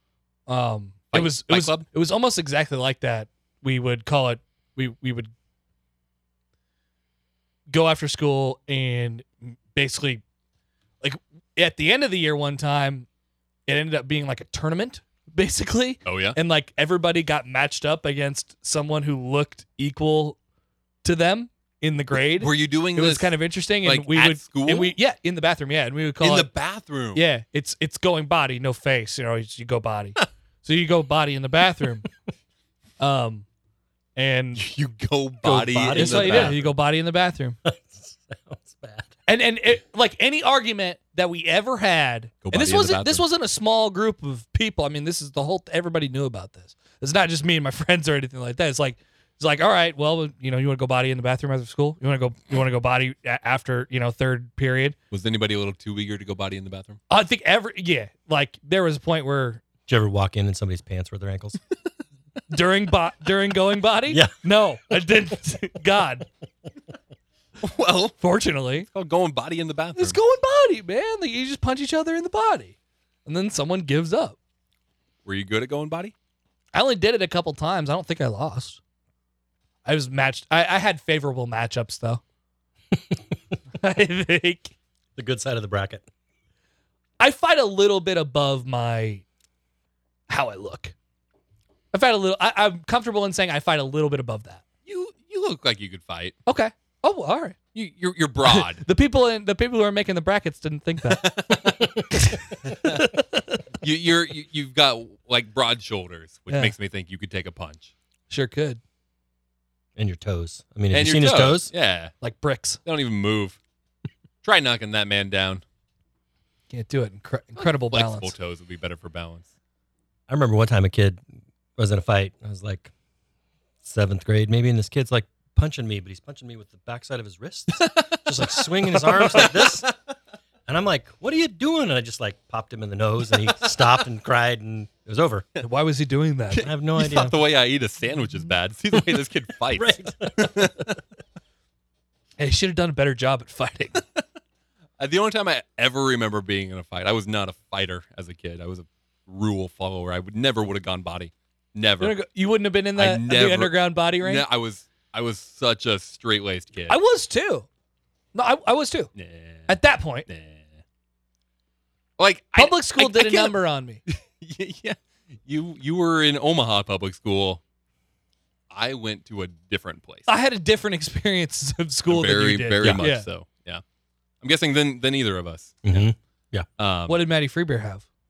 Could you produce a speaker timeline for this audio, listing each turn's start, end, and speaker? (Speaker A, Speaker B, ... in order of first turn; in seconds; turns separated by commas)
Speaker A: 0.5-5.3, Speaker B: 1.1-1.9, Speaker A: 7.7-10.2, Speaker A: 11.0-13.1, Speaker A: 13.7-20.4, Speaker B: 16.0-16.4, Speaker A: 21.0-26.5, Speaker B: 22.3-24.9, Speaker B: 26.2-27.2, Speaker A: 27.1-32.1, Speaker A: 33.0-33.5, Speaker A: 34.1-34.6, Speaker B: 34.5-36.6, Speaker A: 35.5-37.6, Speaker C: 35.5-36.7, Speaker C: 37.6-39.1, Speaker A: 39.3-55.0, Speaker B: 42.4-43.2, Speaker B: 55.1-57.0, Speaker A: 57.1-59.6, Speaker C: 59.9-61.6, Speaker A: 62.5-66.2, Speaker C: 64.1-64.3, Speaker B: 67.6-68.2, Speaker A: 68.2-68.9, Speaker B: 68.9-70.2, Speaker A: 70.0-74.4, Speaker B: 75.2-76.1, Speaker A: 76.7-78.8, Speaker A: 79.8-82.2, Speaker A: 83.8-84.7, Speaker C: 85.2-86.0, Speaker A: 87.2-89.2, Speaker A: 90.3-90.9, Speaker A: 91.9-94.6, Speaker B: 94.8-96.4, Speaker A: 96.5-97.5, Speaker B: 97.7-98.8, Speaker A: 98.4-101.2, Speaker B: 101.1-101.9, Speaker A: 102.1-103.6, Speaker B: 102.6-103.1, Speaker B: 103.8-107.9, Speaker A: 106.5-106.7, Speaker A: 108.3-108.8, Speaker C: 110.0-111.7, Speaker B: 110.9-112.1, Speaker A: 112.2-112.8, Speaker B: 112.8-113.6, Speaker B: 114.4-115.6, Speaker A: 116.7-118.3, Speaker B: 117.6-119.5, Speaker C: 120.3-121.2, Speaker C: 121.8-122.9, Speaker C: 123.8-129.9, Speaker B: 127.8-128.2, Speaker B: 128.9-129.9, Speaker C: 130.7-135.5, Speaker A: 135.6-136.7, Speaker B: 136.5-140.9, Speaker C: 136.6-137.4, Speaker C: 139.7-140.9, Speaker A: 142.4-144.0, Speaker B: 145.0-152.2, Speaker A: 152.0-154.4, Speaker B: 152.9-157.0, Speaker A: 156.9-157.7, Speaker A: 158.3-159.1, Speaker B: 159.1-159.7, Speaker A: 159.7-160.2, Speaker B: 160.3-160.7, Speaker B: 162.2-163.5, Speaker A: 162.6-164.0, Speaker B: 164.1-167.6, Speaker B: 168.7-170.3, Speaker A: 170.3-173.3, Speaker B: 172.1-173.8, Speaker B: 174.4-176.1, Speaker C: 175.8-176.7, Speaker B: 176.8-177.2, Speaker A: 177.1-178.0